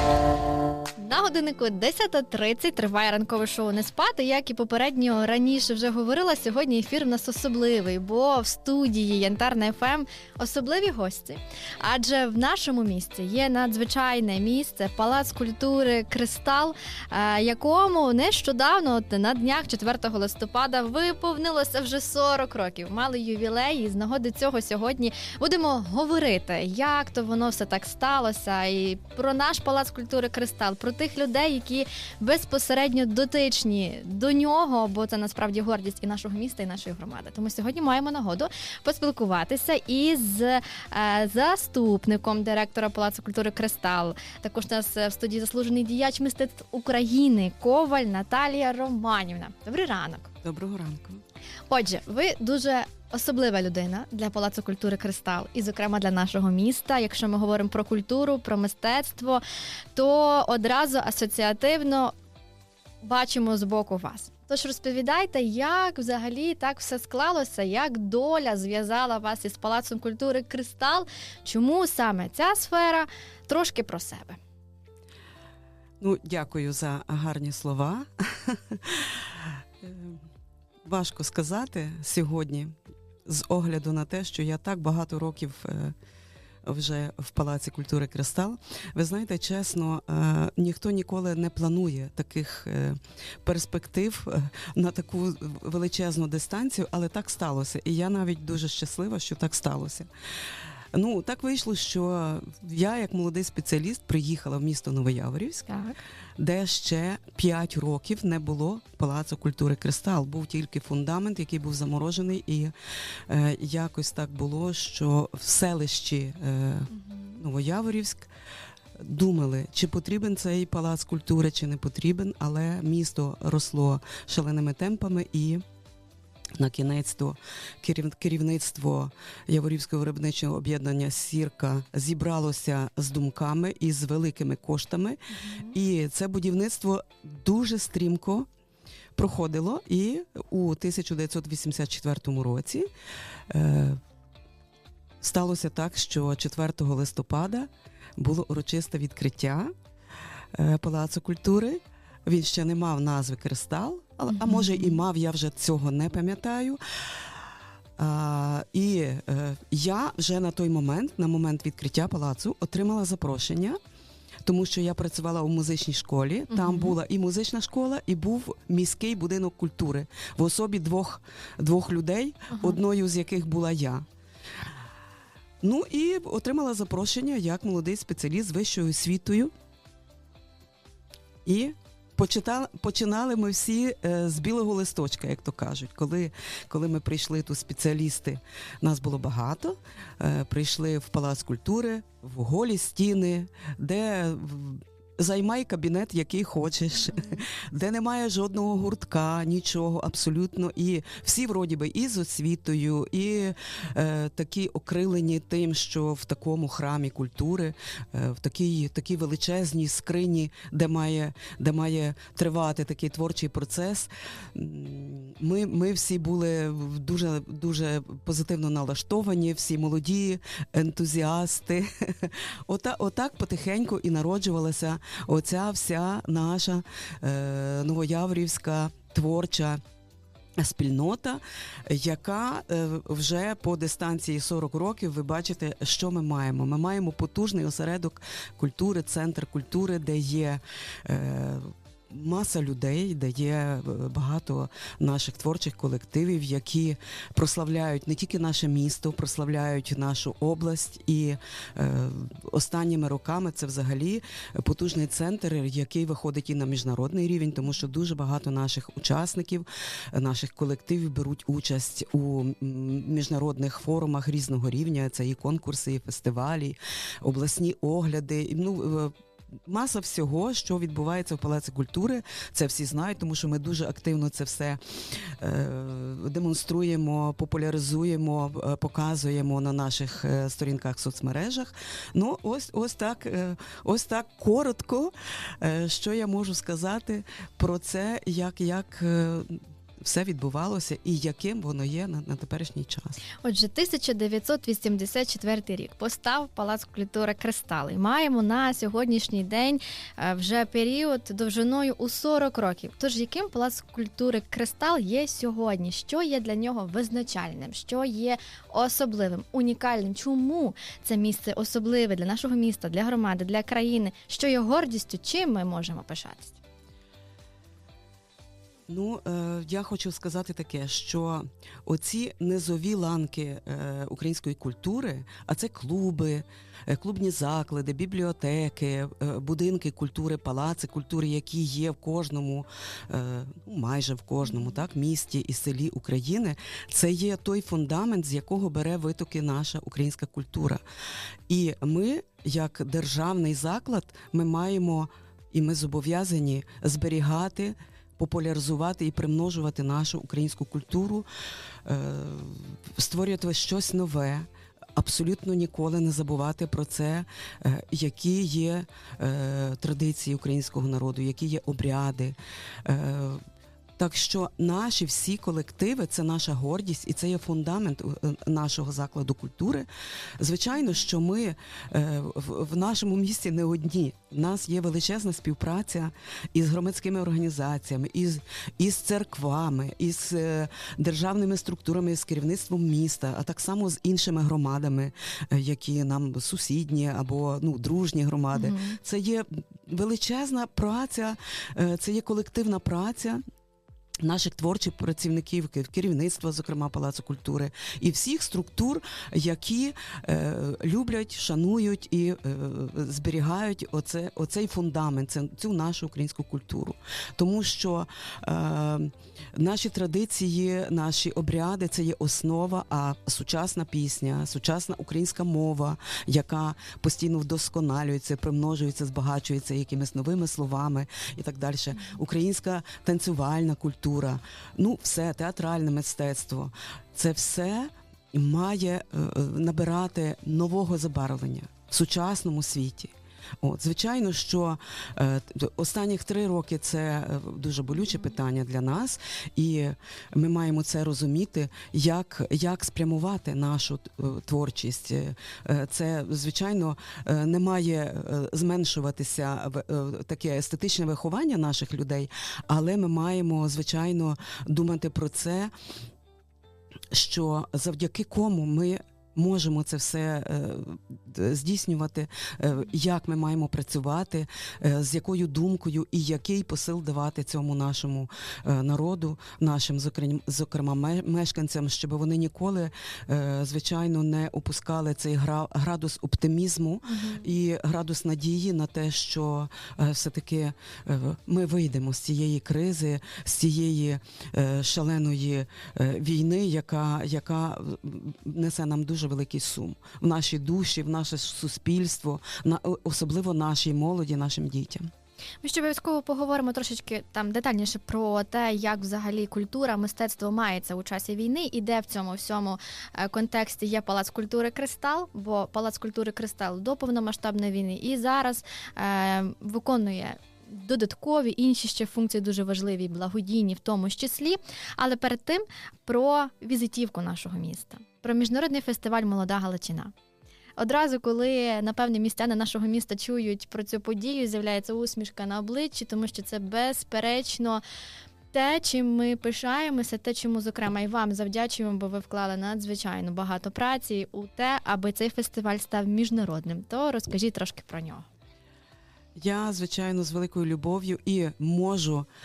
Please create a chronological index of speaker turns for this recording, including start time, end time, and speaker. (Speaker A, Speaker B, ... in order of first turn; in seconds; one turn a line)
Speaker A: 1.0-50.3
Speaker B: 50.4-51.2
Speaker A: 51.7-59.4
Speaker A: 60.0-62.1
Speaker A: 63.0-74.4
Speaker B: 76.0-80.2
Speaker B: 80.8-82.7
Speaker B: 83.3-86.0
Speaker B: 86.7-100.1
Speaker B: 100.9-105.7
Speaker A: 105.7-105.9
Speaker B: 106.4-112.7
Speaker B: 113.3-118.3
Speaker A: 116.9-117.4
Speaker B: 119.0-125.6
Speaker B: 126.6-138.5
Speaker A: 135.3-135.8
Speaker B: 139.2-142.9
Speaker B: 143.5-144.0
Speaker B: 145.2-149.7
Speaker B: 150.5-156.8
Speaker A: 154.3-155.0
Speaker B: 158.0-163.8
Speaker B: 164.5-174.1
Speaker A: 166.5-166.9
Speaker A: 172.5-172.8
Speaker B: 175.6-179.5
Speaker B: 181.4-229.8
Speaker B: 230.6-269.1
Speaker B: 269.7-293.2
Speaker A: 293.4-316.6
Speaker B: 318.9-340.8
Speaker A: 334.4-334.8
Speaker B: 341.5-351.3
Speaker B: 351.9-363.4
Speaker B: 364.0-369.9
Speaker B: 370.4-393.4
Speaker A: 388.5-389.0
Speaker B: 394.2-455.7
Speaker B: 457.1-495.1
Speaker A: 477.1-477.5
Speaker A: 495.6-520.1
Speaker A: 520.8-527.8
Speaker A: 528.5-538.3
Speaker B: 539.4-542.3